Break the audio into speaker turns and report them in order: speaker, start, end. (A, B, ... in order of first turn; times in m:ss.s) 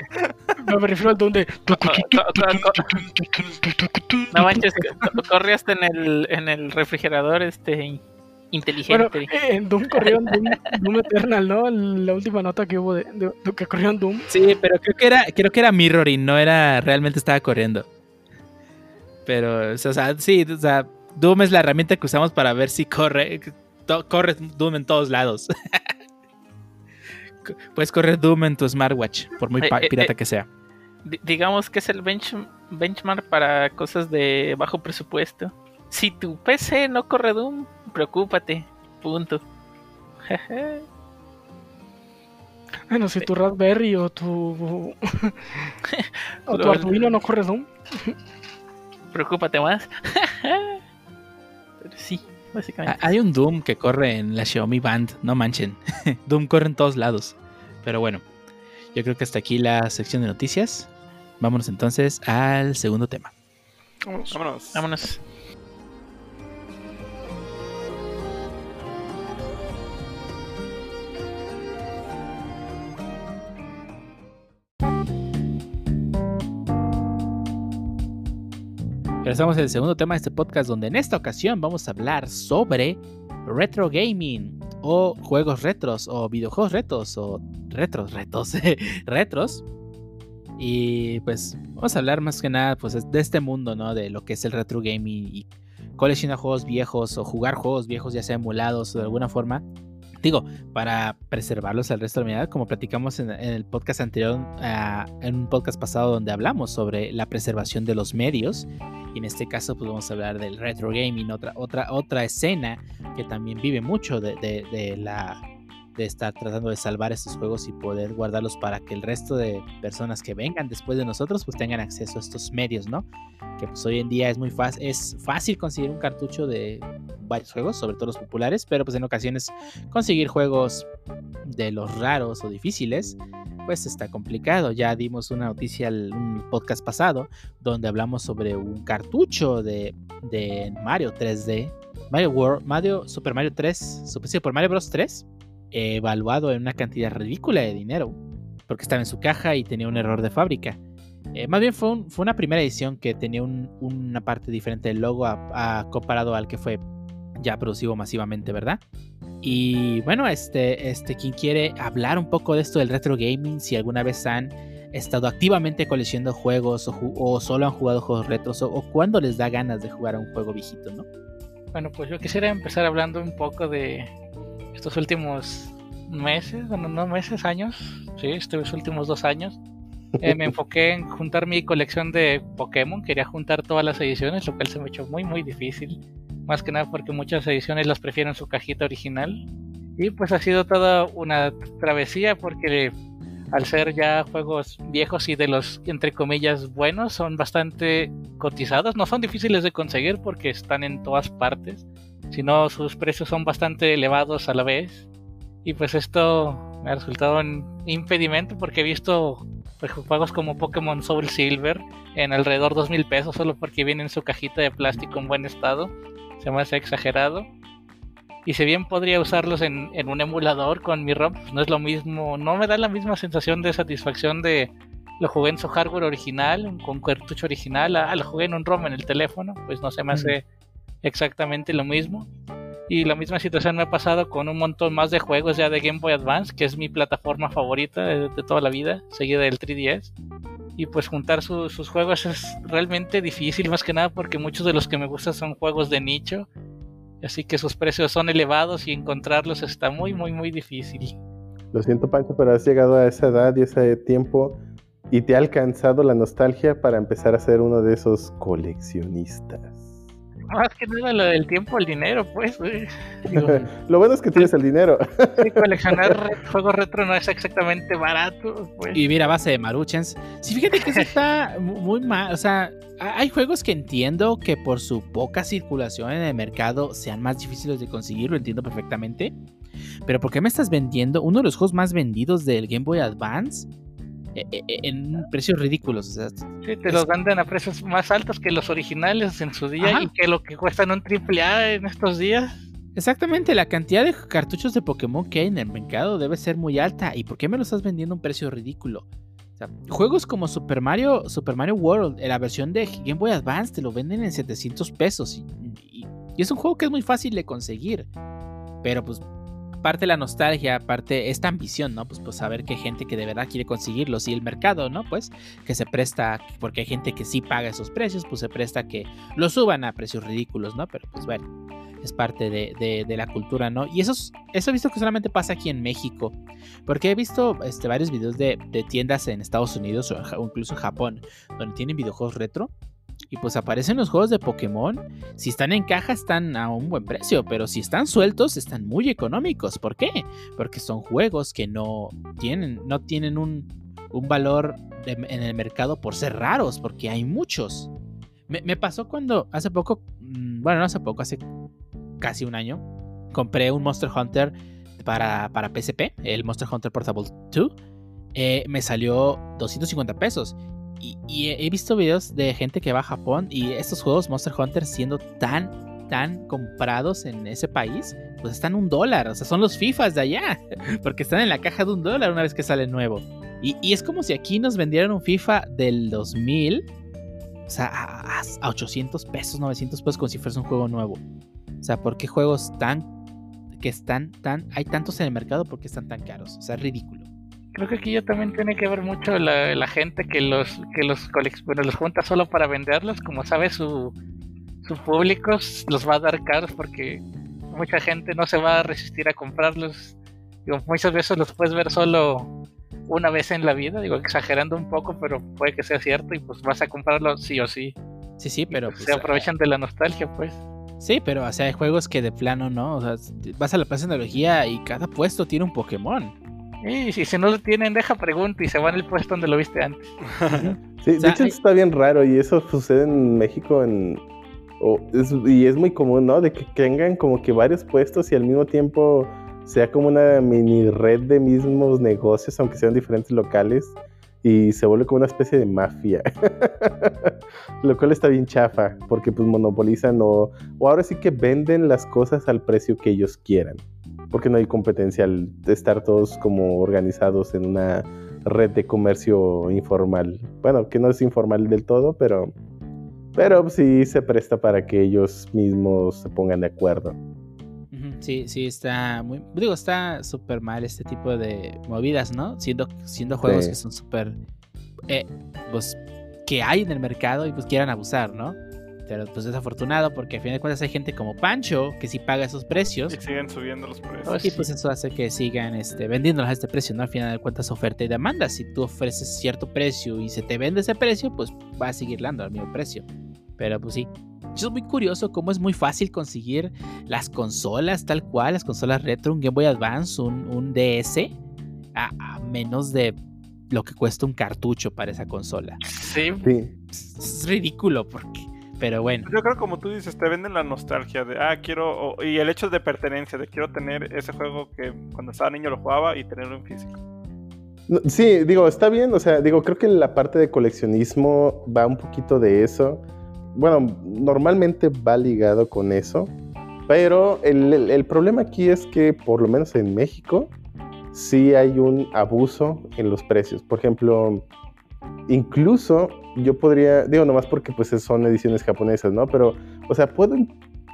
0:00.6-0:05.1 A
0:01.8-0:03.0 B
0:04.3-0:09.3 B
0:08.9-0:14.3 A
0:10.0-0:10.6 B
0:14.3-0:17.9 C
0:19.2-0:25.9 C
0:27.4-0:30.5 C
0:29.6-0:30.1 B
0:31.0-0:39.4 B
0:40.3-0:40.8 B
0:42.9-0:45.7 A
0:45.8-0:47.1 B
0:46.5-0:48.2 A
0:49.1-0:50.8 B
0:51.8-0:53.2 B
0:52.9-0:58.2 C
0:58.9-1:00.9 C
1:01.4-1:03.3 C
1:04.1-1:04.3 A
1:04.3-1:04.8 D
1:04.7-1:05.2 B
1:19.2-1:29.6 C
1:30.6-1:39.6 C
1:40.2-1:55.4 C
1:56.0-2:03.0 C
2:03.6-2:10.8 C
2:11.4-2:30.8 C
2:31.3-2:36.8 C
2:37.4-2:38.8 C
2:39.4-2:51.0 C
2:51.7-2:54.1 E
2:54.7-2:59.6 E
3:00.2-3:09.4 E
3:10.0-3:12.9 E
3:13.5-3:25.1 E
3:25.6-3:37.5 E
3:38.4-3:50.4 E
3:51.0-3:52.3 E
3:52.9-4:00.1 E
4:00.8-4:06.5 E
4:07.2-4:11.2 E
4:11.7-4:14.6 F
4:15.1-4:20.0 F
4:20.5-4:23.6 E
4:23.3-4:23.6 C
4:23.4-4:26.2 F
4:25.4-4:29.0 E
4:28.9-4:39.3 C
4:30.8-4:31.1 E
4:40.0-4:43.7 C
4:44.3-4:47.0 C
4:46.6-4:52.6 E
4:49.8-4:50.1 C
4:53.0-4:59.0 C
4:59.6-5:08.1 C
5:08.8-5:09.2 C
5:09.8-5:21.4 C
5:22.0-5:32.7 C
5:33.3-5:47.9 C
5:48.5-5:51.4 C
5:52.2-5:57.7 C
5:58.3-6:16.8 C
6:17.7-6:21.2 C
6:21.8-6:23.1 C
6:23.8-6:27.2 C
6:27.7-6:34.1 E
6:34.8-6:42.5 E
6:43.1-6:48.0 E
6:48.4-6:49.5 C
6:48.7-6:50.6 E
6:51.0-6:56.3 C
6:56.8-7:00.1 E
7:00.3-7:00.6 D
7:00.5-7:01.5 C
7:01.0-7:04.2 F
7:04.8-7:23.8 F
7:24.3-7:32.5 F
7:33.3-7:37.2 F
7:37.9-7:44.4 C
7:43.4-7:43.8 F
7:45.1-7:53.2 C
7:53.1-7:54.4 D
7:54.2-7:54.7 E
7:54.4-8:03.0 C
8:03.6-8:11.3 C
8:11.9-8:13.2 C
8:13.7-8:15.8 C
8:15.8-8:16.4 E
8:16.4-8:16.7 F
8:17.0-8:19.3 C
8:19.2-8:27.0 D
8:27.9-8:33.0 F
8:33.5-8:36.3 F
8:36.9-8:40.5 F
8:41.1-8:44.4 F
8:45.3-8:50.5 F